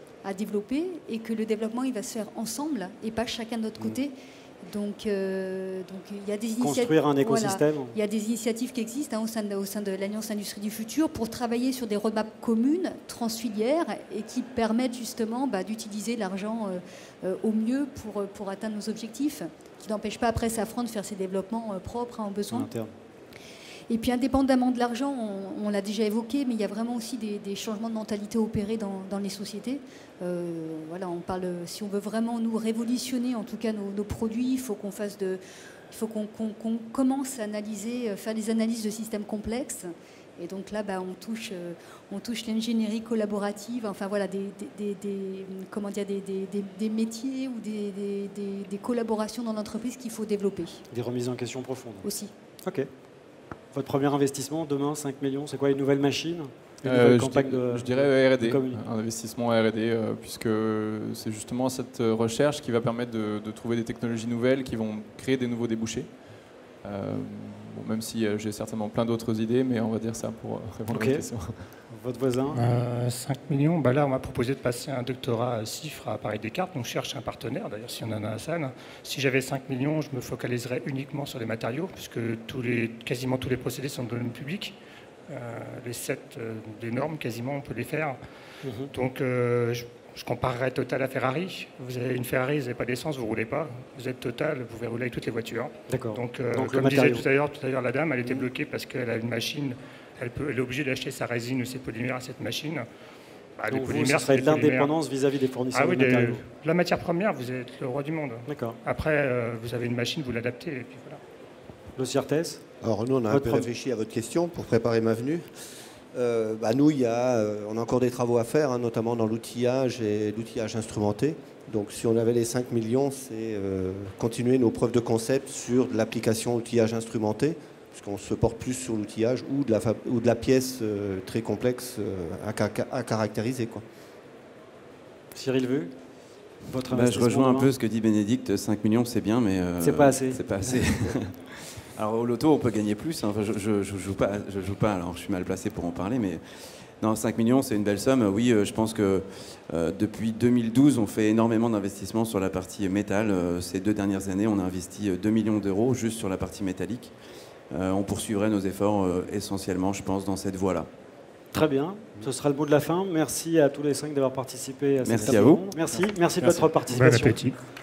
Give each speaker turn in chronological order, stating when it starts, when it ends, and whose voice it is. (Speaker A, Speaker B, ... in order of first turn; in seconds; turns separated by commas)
Speaker A: 0.2-4.1, Speaker A: 4.7-22.7, Speaker B: 6.6-8.0, Speaker B: 22.5-22.9, Speaker A: 23.9-50.8, Speaker B: 50.9-52.1, Speaker A: 52.0-52.3, Speaker B: 52.6-52.9, Speaker B: 53.7-58.8, Speaker C: 56.9-66.1, Speaker C: 66.8-71.7, Speaker B: 70.9-71.3, Speaker B: 71.9-72.6, Speaker D: 72.5-84.8, Speaker D: 85.3-88.2, Speaker B: 88.6-88.9, Speaker D: 88.9-102.9, Speaker B: 95.9-97.2, Speaker D: 103.6-105.0, Speaker B: 103.7-106.4, Speaker D: 105.7-111.2, Speaker B: 108.5-108.8, Speaker B: 112.0-112.6, Speaker E: 112.8-115.5, Speaker B: 113.3-113.7, Speaker E: 116.1-133.8, Speaker B: 135.3-135.9, Speaker B: 136.7-137.7, Speaker F: 136.9-146.4, Speaker B: 139.8-140.9, Speaker F: 147.0-157.1, Speaker F: 157.7-160.9, Speaker B: 161.5-167.4, Speaker F: 165.0-165.7, Speaker D: 166.9-167.6